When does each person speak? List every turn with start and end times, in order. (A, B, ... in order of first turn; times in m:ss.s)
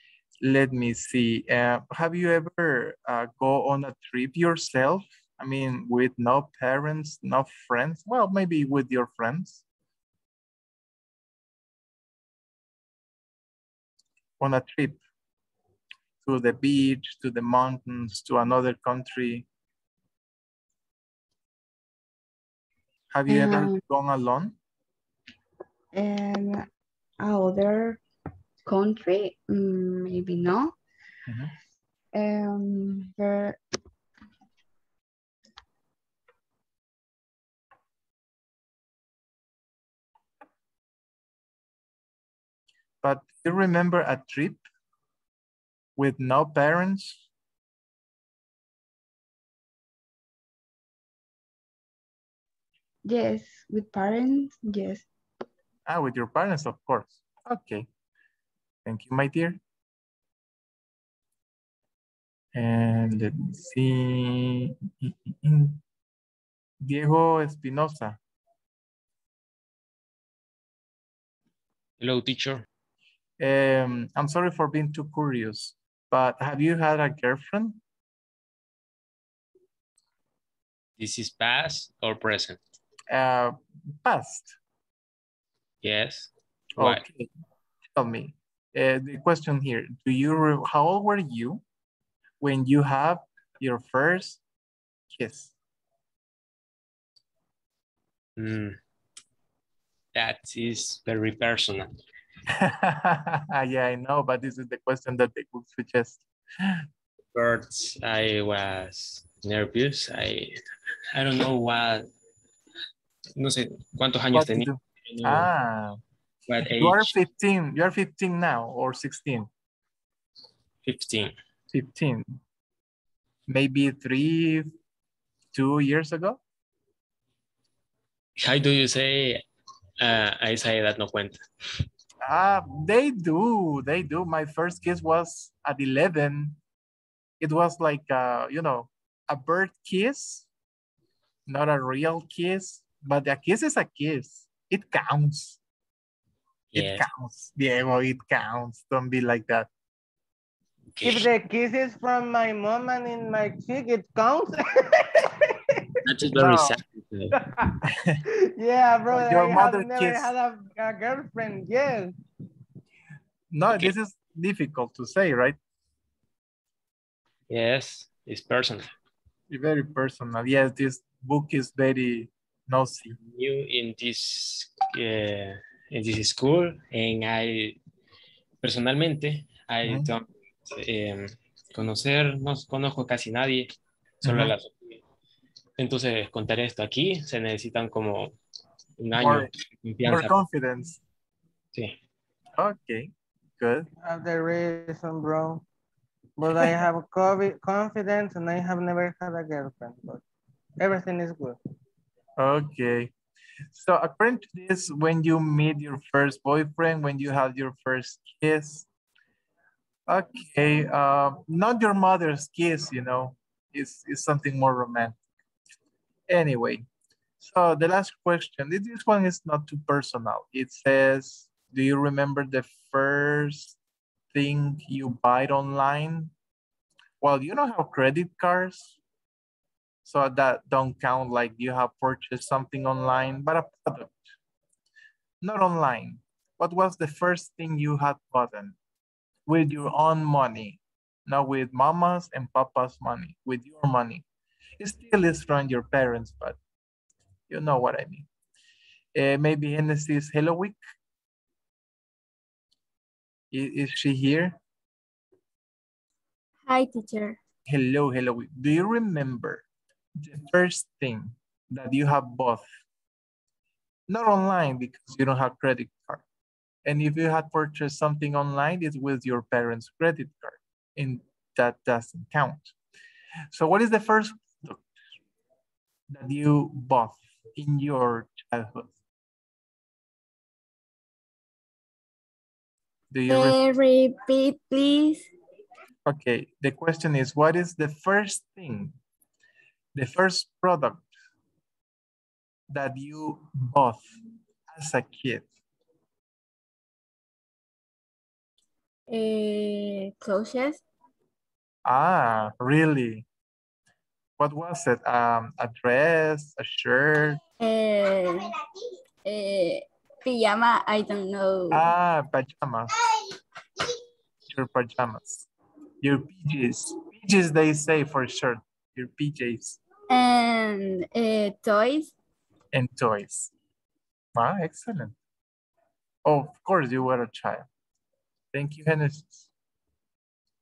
0:00.4-0:09.6 A
0:14.4-0:15.0 A
0:16.2-0:19.5 A
0:23.1-0:24.6 A
0:23.3-0:23.8 B
0:25.9-0:26.6 B
0:27.2-0:28.0 B
0:28.6-0:30.8 B
0:31.3-0:31.5 A
0:32.1-0:33.6 B
0:43.0-0:44.6 A
0:46.0-0:47.2 A
0:53.0-0:55.1 B
0:55.9-0:57.9 A
0:58.8-0:59.6 A
1:02.6-1:05.8 A
1:06.8-1:08.2 A
1:12.0-1:12.6 C
1:13.4-1:17.8 A
1:21.0-1:22.6 C
1:23.1-1:24.6 A
1:25.8-1:27.0 C
1:26.8-1:27.3 A
1:27.9-1:31.6 A
1:32.4-1:34.4 A
1:35.1-1:35.5 A
1:38.4-1:38.8 C
1:40.1-1:41.9 C
1:42.5-1:46.8 A
1:47.3-1:50.6 C
1:51.1-1:52.1 C
1:53.4-1:55.5 C
1:54.3-1:56.0 A
1:56.5-1:57.1 C
1:56.6-1:59.5 A
2:00.8-2:01.3 C
2:01.7-2:02.4 A
2:03.5-2:04.7 A
2:05.5-2:06.4 A
2:08.4-2:09.4 C
2:10.0-2:11.4 C
2:12.2-2:16.6 A
2:17.4-2:20.5 A
2:21.5-2:25.6 A
2:26.7-2:27.1 C
2:26.8-2:29.7 A
2:31.0-2:31.3 C
2:31.0-2:35.8 D
2:36.0-2:37.4 C
2:36.4-2:36.8 A
2:37.4-2:42.1 D
2:39.1-2:40.3 A
2:43.5-2:45.6 A
2:47.5-2:48.9 C
2:49.5-2:53.2 A
2:53.2-2:57.8 C
2:58.6-3:03.7 C
2:59.8-3:00.1 A
3:04.2-3:04.6 A
3:04.2-3:05.0 C
3:05.8-3:08.4 C
3:09.0-3:10.3 C
3:09.1-3:09.5 A
3:10.0-3:11.0 A
3:12.6-3:13.9 A
3:14.0-3:15.6 D
3:16.4-3:20.2 D
3:20.8-3:21.6 D
3:22.4-3:23.1 A
3:23.7-3:28.9 A
3:30.1-3:35.2 A
3:36.3-3:36.9 A
3:37.4-3:43.8 A
3:44.3-3:46.3 A
3:47.2-3:49.0 A
3:50.0-3:54.2 A
3:55.4-3:58.8 A
3:59.5-4:04.2 A
4:04.8-4:06.6 A
4:07.5-4:08.3 A
4:09.1-4:10.8 A
4:13.5-4:14.6 A
4:16.6-4:17.4 E
4:17.7-4:19.6 A
4:20.2-4:22.6 A
4:24.1-4:26.2 A
4:26.9-4:32.7 A
4:33.5-4:34.9 A
4:36.1-4:38.9 A
4:43.1-4:43.6 A
4:43.3-4:45.3 E
4:46.1-4:48.9 A
4:49.9-4:51.1 A
4:52.7-4:54.0 A
4:54.7-4:55.5 A
4:59.1-5:00.8 E
5:01.8-5:03.3 A
5:04.4-5:07.4 A
5:07.6-5:08.5 E
5:09.2-5:11.9 E
5:11.7-5:12.9 A
5:14.5-5:15.5 A
5:16.0-5:19.8 A
5:20.1-5:22.1 E
5:22.7-5:23.5 A
5:24.4-5:25.1 A
5:26.3-5:27.7 A
5:28.5-5:29.5 A